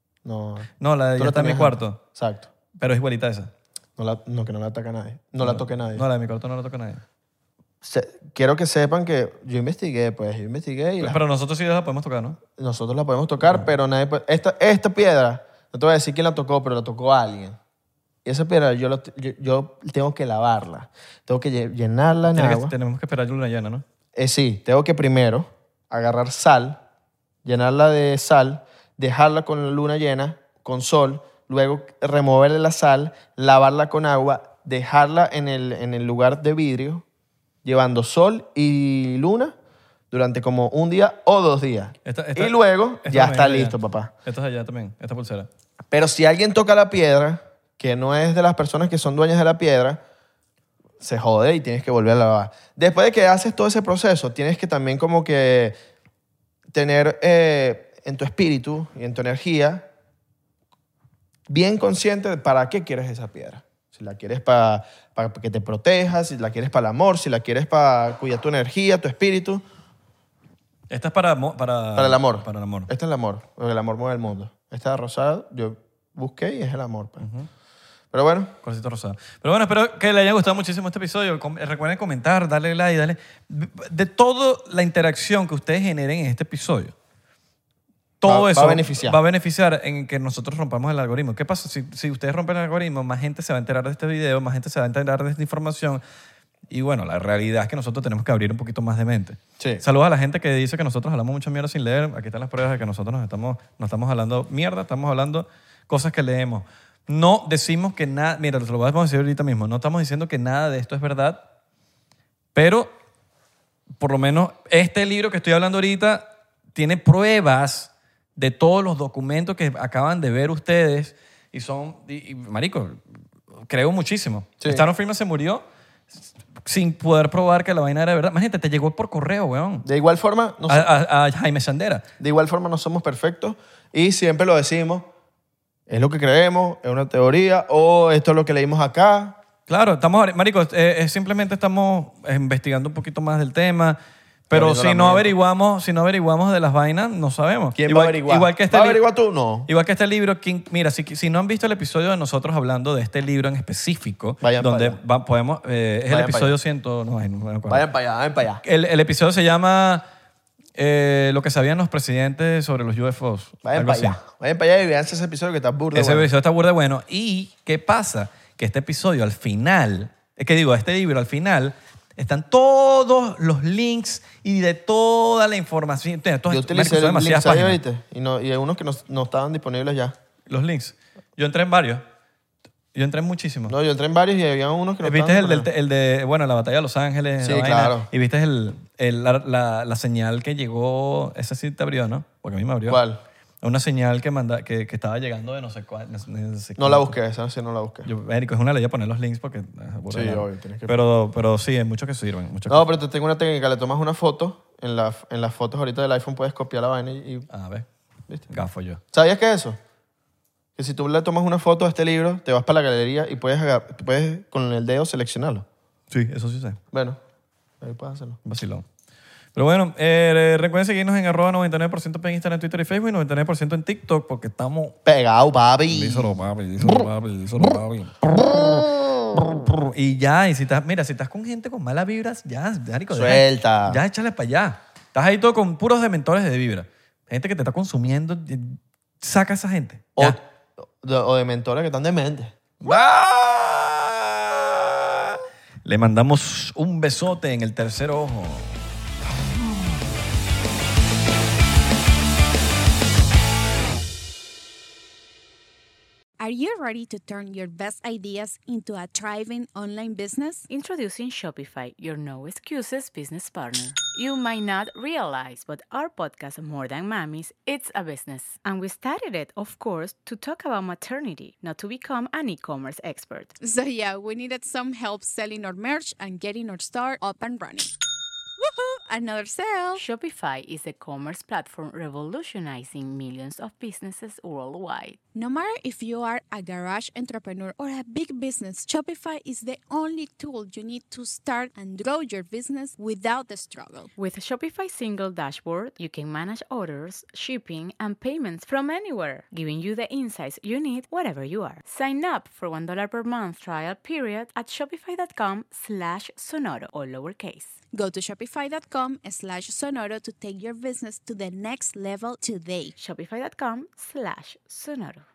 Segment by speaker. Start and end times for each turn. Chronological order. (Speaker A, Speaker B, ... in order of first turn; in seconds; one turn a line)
Speaker A: 0.2-2.5
Speaker B: 0.8-2.0
Speaker B: 2.8-3.5
Speaker A: 4.0-6.0
Speaker B: 5.4-7.0
Speaker A: 7.8-11.2
Speaker B: 11.0-12.4
Speaker A: 12.6-17.6
Speaker A: 18.2-22.7
Speaker B: 22.3-23.9
Speaker A: 24.2-26.8
Speaker A: 27.4-37.0
Speaker A: 37.6-39.5
Speaker A: 40.1-44.1
Speaker B: 42.0-45.5
Speaker A: 45.9-50.0
Speaker A: 51.0-55.8
Speaker A: 56.7-59.9
Speaker A: 61.5-69.6
Speaker B: 70.9-72.9
Speaker A: 72.0-77.3
Speaker B: 77.2-77.5
Speaker A: 78.1-78.5
Speaker B: 78.6-87.0
Speaker B: 88.2-96.0
Speaker A: 88.2-89.2
Speaker B: 96.7-111.5
Speaker B: 112.5-112.9
Speaker B: 114.0-123.0
Speaker B: 123.7-129.9
Speaker A: 129.8-130.9
Speaker B: 130.7-132.1
Speaker A: 132.2-135.1
Speaker A: 135.9-139.4
Speaker B: 139.7-144.0
Speaker B: 144.5-149.0
Speaker A: 144.5-145.3
Speaker A: 147.8-149.7
Speaker B: 149.7-157.9
Speaker A: 154.4-155.0
Speaker A: 156.1-156.6
Speaker A: 157.7-158.6
Speaker B: 158.6-160.1
Speaker B: 160.8-164.2
Speaker A: 163.7-166.3
Speaker B: 165.9-177.8
Speaker A: 176.5-180.2
Speaker B: 180.5-182.0
Speaker B: 182.9-183.8
Speaker A: 183.7-185.7
Speaker B: 185.0-193.0
Speaker A: 187.4-188.1
Speaker A: 192.9-193.2
Speaker B: 193.6-197.1
Speaker A: 196.8-198.1
Speaker B: 198.0-202.9
Speaker A: 200.1-201.0
Speaker A: 202.7-207.5
Speaker B: 207.5-207.9
Speaker B: 208.5-209.0
Speaker A: 209.1-209.8
Speaker A: 210.8-215.7
Speaker B: 216.1-216.8
Speaker A: 216.9-217.2
Speaker A: 217.8-218.4
Speaker B: 218.4-218.8
Speaker B: 219.6-225.0
Speaker A: 225.1-226.3
Speaker B: 225.9-228.3
Speaker A: 228.3-229.1
Speaker B: 229.3-240.4
Speaker A: 233.1-234.0
Speaker A: 240.2-242.5
Speaker B: 242.8-248.8
Speaker C: 256.4-260.7
Speaker D: 260.7-273.6
Speaker C: 273.6-277.9
Speaker C: 278.6-280.0
Speaker D: 280.0-285.2
Speaker C: 285.4-294.1
Speaker D: 294.2-307.8
Speaker C: 307.9-312.9
Speaker D: 313.0-315.2